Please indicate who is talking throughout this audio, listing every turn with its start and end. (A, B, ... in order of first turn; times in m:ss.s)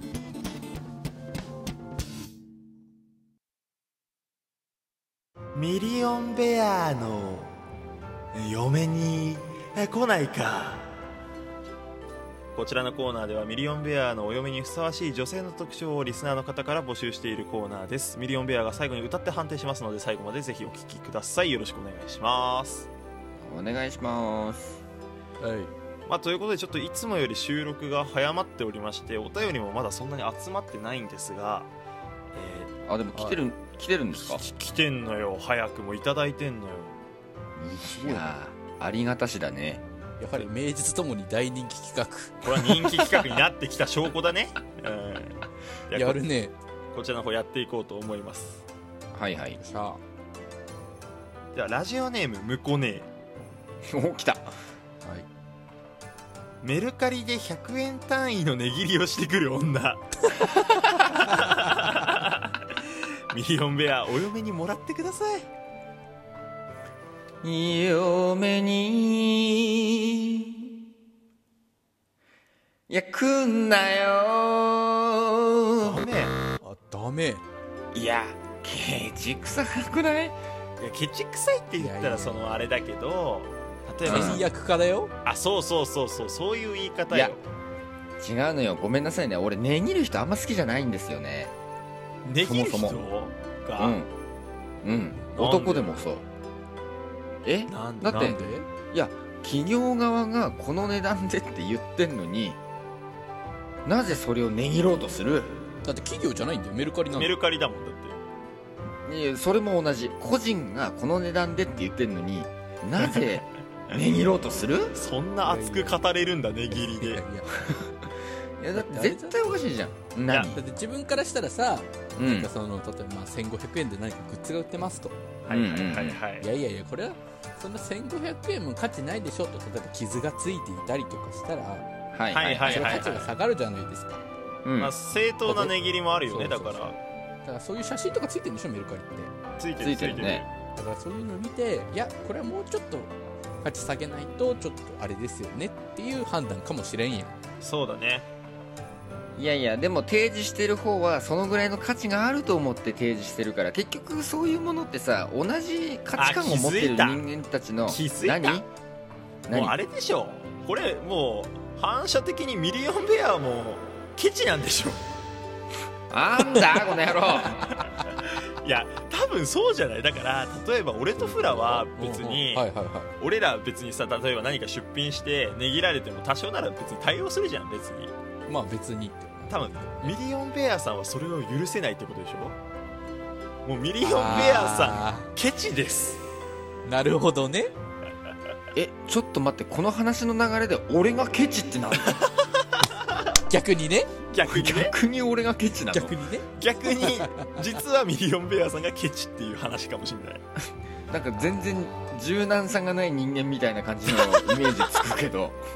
0:05.5-0:07.6 A
0:08.3-0:10.9 A
0:12.6-0:22.9 A
0:23.4-0:24.8 B
0:25.4-0:25.7 C
0:26.1-0:31.7 A
0:32.4-0:32.7 A
0:32.9-0:34.4 B
0:33.1-0:33.4 C
0:34.2-0:37.0 A
0:37.6-0:39.8 B
0:38.0-0:38.3 C
0:40.2-0:42.4 C
0:42.4-0:46.2 A
0:45.9-0:46.5 C
0:46.9-0:48.6 A
0:49.1-0:49.6 B
0:49.6-0:50.0 C
0:51.5-0:53.1 A
0:53.9-0:54.5 B
0:56.6-1:02.5 A
1:03.3-1:05.5 A
1:07.4-1:10.7 B
1:12.9-1:16.0 B
1:15.8-1:16.4 A
1:16.6-1:17.4 C
1:17.9-1:20.4 B
1:20.8-1:24.4 A
1:21.8-1:22.6 C
1:24.0-1:24.4 B
1:24.0-1:25.1 C
1:25.2-1:27.4 A
1:28.2-1:31.5 B
1:32.2-1:34.0 A
1:32.4-1:33.0 B
1:33.8-1:34.1 B
1:34.8-1:36.2 B
1:35.4-1:36.0 A
1:37.4-1:38.4 B
1:37.7-1:38.4 A
1:38.2-1:38.7 C
1:38.9-1:42.6 B
1:43.8-1:45.7 B
1:45.8-1:47.3 C
1:47.1-1:48.2 A
1:49.1-1:55.0 B
1:55.0-1:57.2 A
1:55.4-1:56.0 C
1:56.7-1:57.9 C
1:58.6-2:00.6 B
1:58.7-1:59.3 C
2:00.3-2:00.5 A
2:00.5-2:05.2 C
2:02.2-2:02.5 B
2:05.5-2:06.5 A
2:05.5-2:06.2 B
2:06.4-2:11.9 C
2:12.1-2:13.2 B
2:12.3-2:13.3 A
2:12.5-2:14.2 C
2:14.6-2:14.9 B
2:14.8-2:17.0 A
2:15.5-2:15.8 C
2:16.3-2:19.3 C
2:19.6-2:20.5 A
2:19.8-2:20.4 B
2:20.8-2:27.4 C
2:27.6-2:28.3 A
2:29.4-2:38.7 B
2:36.2-2:37.2 A
2:37.9-2:38.7 A
2:39.5-2:39.8 B
2:39.5-2:45.0 A
2:46.1-2:47.6 B
2:47.5-2:52.6 A
2:51.2-2:53.1 C
2:53.2-2:58.1 A
2:58.5-3:00.2 C
2:59.5-3:02.6 A
3:03.6-3:06.2 A
3:04.0-3:05.3 C
3:04.3-3:04.5 B
3:06.8-3:07.7 C
3:08.8-3:12.2 B
3:12.1-3:12.9 A
3:13.5-3:14.1 C
3:14.3-3:14.9 A
3:14.5-3:16.2 B
3:15.9-3:17.5 C
3:16.6-3:20.4 A
3:21.1-3:25.6 B
3:21.4-3:22.2 C